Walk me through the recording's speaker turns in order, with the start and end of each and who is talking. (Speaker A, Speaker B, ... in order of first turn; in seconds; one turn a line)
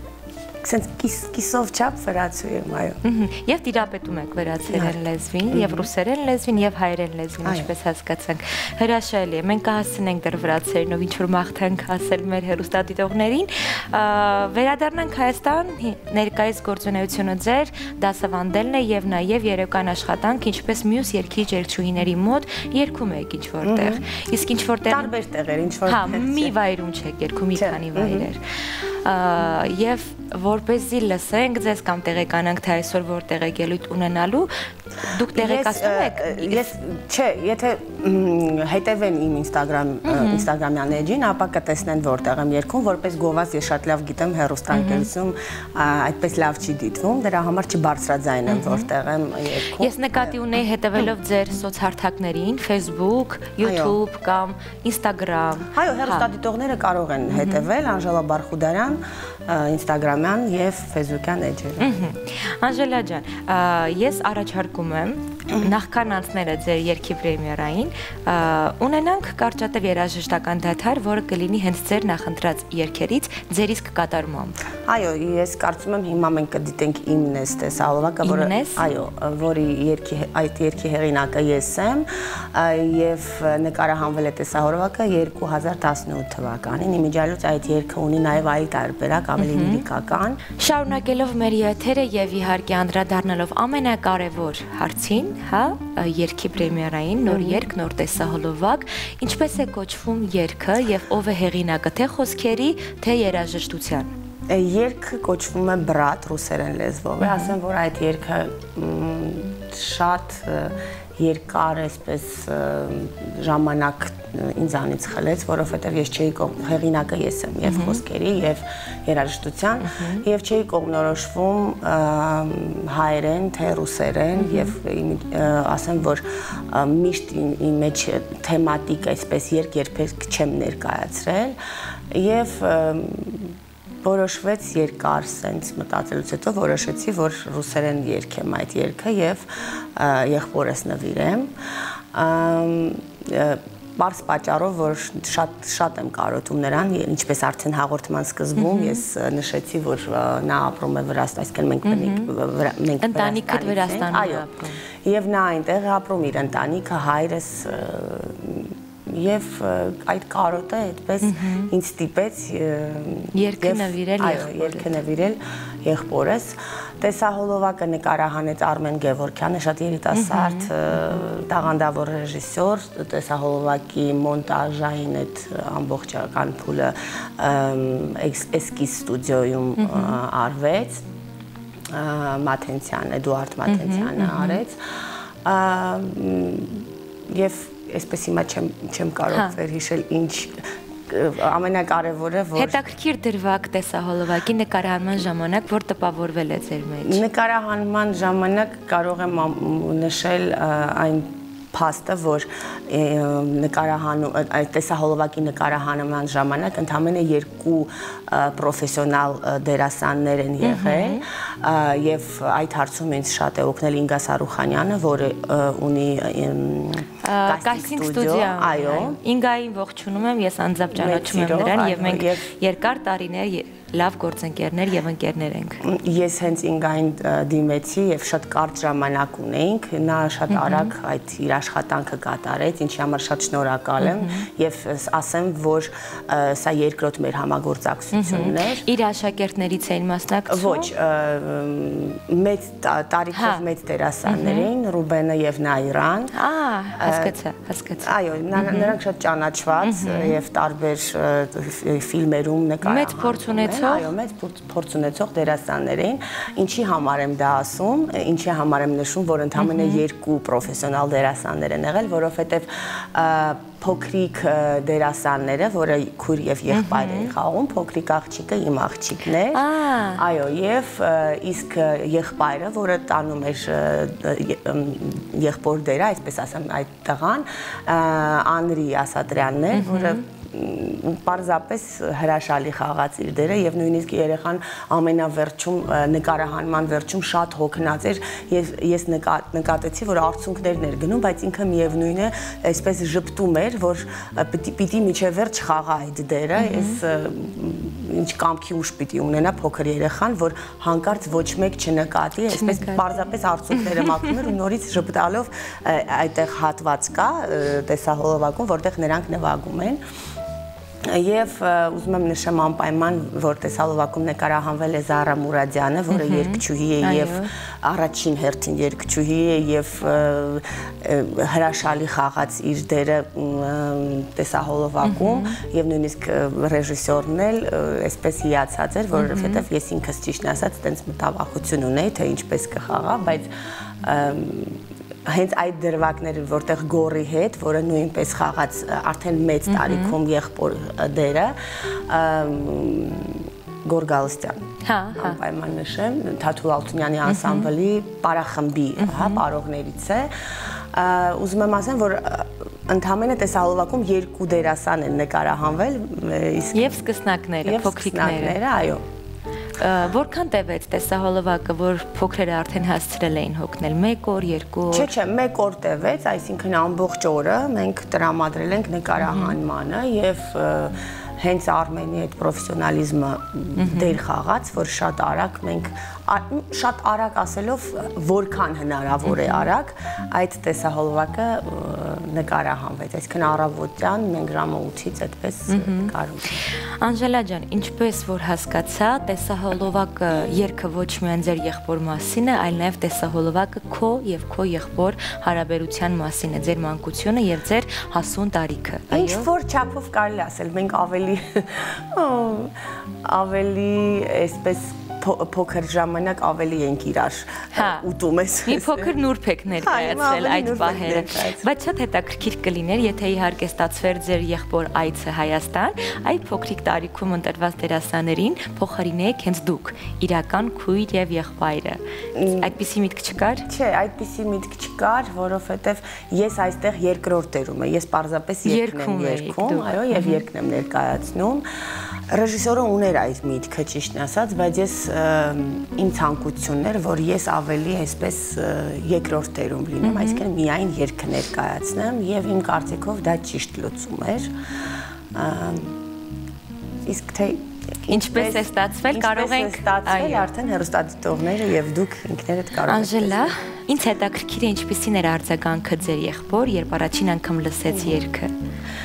Speaker A: 0.6-3.0
Speaker B: 3.0-25.1
Speaker A: 4.7-5.9
Speaker A: 7.4-7.7
Speaker A: 23.6-24.1
Speaker A: 24.9-26.5
Speaker B: 25.9-36.7
Speaker A: 27.5-28.3
Speaker A: 35.2-50.3
Speaker B: 40.0-40.5
Speaker B: 44.7-45.1
Speaker B: 48.5-48.9
Speaker B: 49.8-56.3
Speaker A: 53.6-54.0
Speaker A: 55.7-62.0
Speaker B: 57.3-57.6
Speaker B: 61.8-74.6
Speaker A: 65.5-65.7
Speaker A: 74.8-90.4
Speaker B: 78.2-78.8
Speaker B: 89.4-89.8
Speaker B: 90.6-104.1
Speaker A: 97.3-97.6
Speaker A: 104.5-131.6
Speaker B: 107.2-107.5
Speaker B: 117.6-118.0
Speaker B: 119.8-120.2
Speaker B: 124.3-124.7
Speaker A: 132.1-154.4
Speaker B: 148.6-149.0
Speaker B: 151.8-152.3
Speaker B: 153.0-154.8
Speaker A: 155.0-181.0
Speaker B: 161.2-161.7
Speaker B: 163.3-165.0
Speaker B: 170.1-171.2
Speaker B: 179.8-180.2
Speaker A: 181.9-192.9
Speaker B: 183.7-184.6
Speaker B: 189.3-189.6
Speaker B: 192.6-197.2
Speaker A: 197.0-219.2
Speaker B: 210.6-211.2
Speaker B: 217.2-225.8
Speaker A: 220.9-222.5
Speaker A: 225.8-238.9
Speaker B: 230.5-230.9
Speaker B: 234.0-234.5
Speaker B: 238.1-240.9
Speaker A: 240.5-246.3
Speaker B: 243.3-243.6
Speaker B: 244.2-244.7
Speaker B: 246.3-248.9
Speaker A: 247.0-247.4
Speaker A: 248.0-310.0
Speaker B: 249.8-250.4
Speaker B: 252.8-254.1
Speaker B: 259.6-260.0
Speaker B: 266.7-267.3
Speaker B: 269.5-270.2
Speaker B: 279.7-280.2
Speaker B: 296.6-297.0
Speaker B: 302.5-303.0
Speaker B: 303.8-304.3
Speaker A: 311.1-333.5
Speaker B: 316.1-317.5
Speaker B: 325.0-325.6
Speaker B: 329.1-329.6
Speaker A: 334.0-357.1
Speaker B: 339.7-340.2
Speaker B: 344.8-345.4
Speaker B: 347.2-347.7
Speaker B: 349.0-349.4
Speaker B: 356.7-358.6
Speaker A: 357.6-359.0
Speaker B: 359.8-365.1
Speaker A: 364.9-386.6
Speaker B: 369.2-369.5
Speaker B: 373.8-374.2
Speaker B: 379.2-379.6
Speaker B: 385.7-399.5
Speaker A: 399.1-409.1
Speaker B: 407.7-408.0
Speaker B: 408.6-423.7
Speaker A: 409.8-411.7
Speaker A: 422.3-422.7
Speaker A: 423.6-444.5
Speaker B: 428.6-430.4
Speaker B: 440.0-440.4
Speaker A: 445.3-446.0
Speaker A: 447.0-453.6
Speaker B: 448.1-450.5
Speaker B: 452.9-458.5
Speaker A: 457.9-458.2